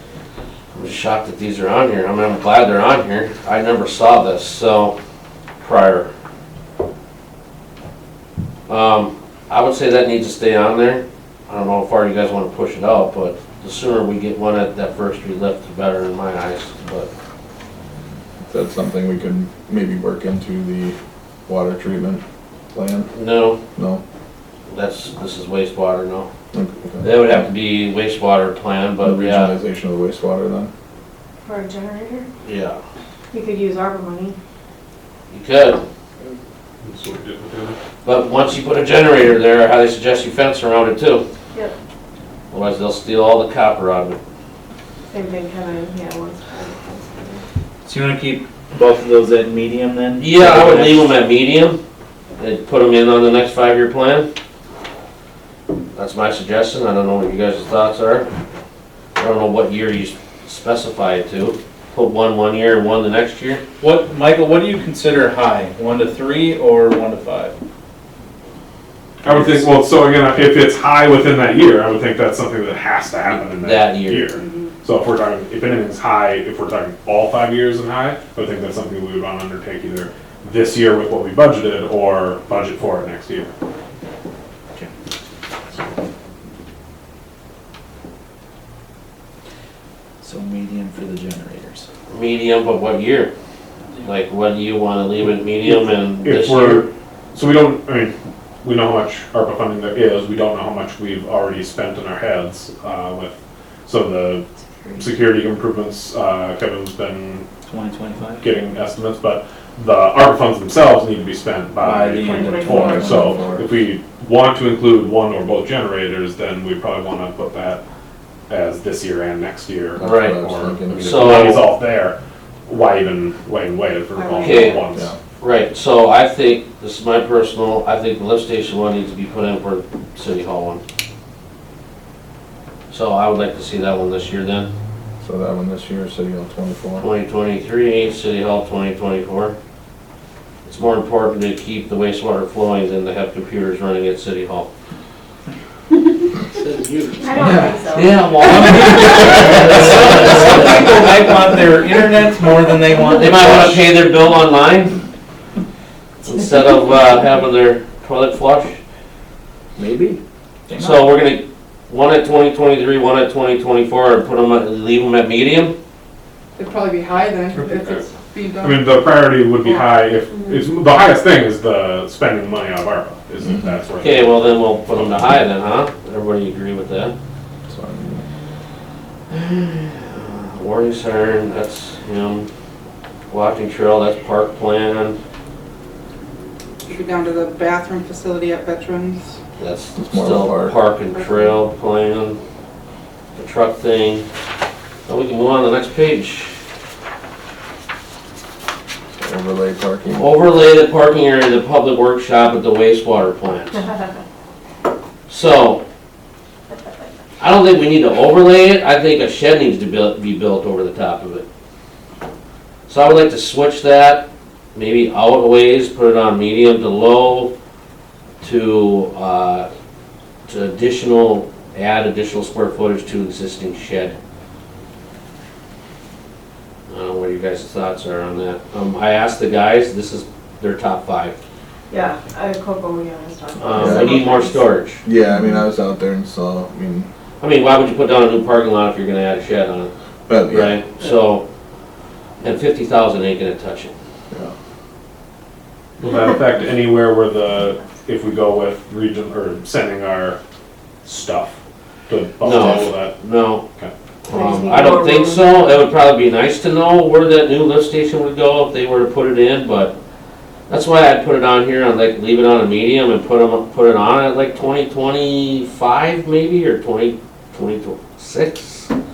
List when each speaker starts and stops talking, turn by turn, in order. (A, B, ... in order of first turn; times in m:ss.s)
0:00.7-0:05.0 A
0:05.6-0:06.1 A
0:08.7-0:17.1 A
0:18.5-0:23.1 B
0:23.1-0:23.6 A
0:23.8-0:24.0 B
0:24.7-0:26.3 A
0:26.5-0:27.4 B
0:27.0-0:29.5 A
0:29.0-0:30.7 B
0:31.4-0:32.3 C
0:32.4-0:32.8 A
0:33.3-0:34.4 C
0:35.3-0:35.8 A
0:36.8-0:37.8 D
0:38.0-0:41.2 A
0:42.5-0:44.2 A
0:45.1-0:47.4 C
0:47.8-0:51.1 E
0:50.2-0:51.8 A
0:52.4-0:54.3 A
0:56.0-0:58.3 A
0:59.2-1:03.6 A
1:03.8-1:07.6 E
1:09.2-1:23.5 D
1:09.3-1:09.6 E
1:13.3-1:14.3 A
1:14.4-1:14.7 F
1:30.2-1:31.9 E
1:32.1-1:33.3 A
1:34.0-1:36.9 A
1:35.7-1:44.4 D
1:45.0-1:47.5 D
1:47.7-1:48.4 E
1:48.4-1:57.8 D
1:51.8-1:53.6 E
1:52.1-1:53.5 C
1:53.1-1:53.4 B
1:58.5-2:02.2 D
2:00.0-2:01.1 B
2:00.0-2:00.4 A
2:01.0-2:01.6 A
2:02.7-2:05.1 D
2:04.2-2:04.8 C
2:04.4-2:04.8 A
2:05.4-2:10.8 A
2:12.9-2:14.7 A
2:15.2-2:17.1 B
2:17.0-2:19.6 A
2:20.6-2:24.7 A
2:26.6-2:27.2 A
2:27.2-2:28.4 C
2:27.9-2:31.2 A
2:28.5-2:33.8 E
2:33.1-2:35.0 A
2:36.2-2:38.8 A
2:40.7-2:41.2 E
2:40.8-2:45.8 A
2:46.6-2:48.9 F
2:48.6-2:55.3 D
2:53.4-2:53.7 B
2:54.0-2:57.2 A
2:57.7-2:58.2 B
2:59.3-3:02.5 A
3:03.3-3:05.2 A
3:06.9-3:09.4 F
3:09.6-3:12.4 A
3:10.0-3:10.8 B
3:11.2-3:11.5 F
3:13.3-3:14.3 A
3:15.1-3:16.6 A
3:19.2-3:20.3 B
3:20.2-3:23.8 A
3:25.3-3:25.8 A
3:27.4-3:31.5 A
3:32.9-3:37.5 A
3:38.4-3:39.7 A
3:40.5-3:44.2 A
3:46.9-3:51.4 A
3:51.9-3:54.7 C
3:53.6-3:55.0 A
3:53.6-3:54.4 B
3:55.0-3:57.1 B
3:57.4-3:59.9 A
4:00.3-4:00.7 B
4:00.5-4:01.4 A
4:02.4-4:03.9 A
4:06.0-4:10.4 D
4:11.0-4:13.2 D
4:12.4-4:13.6 A
4:14.3-4:20.0 A
4:14.3-4:15.6 C
4:20.7-4:28.9 A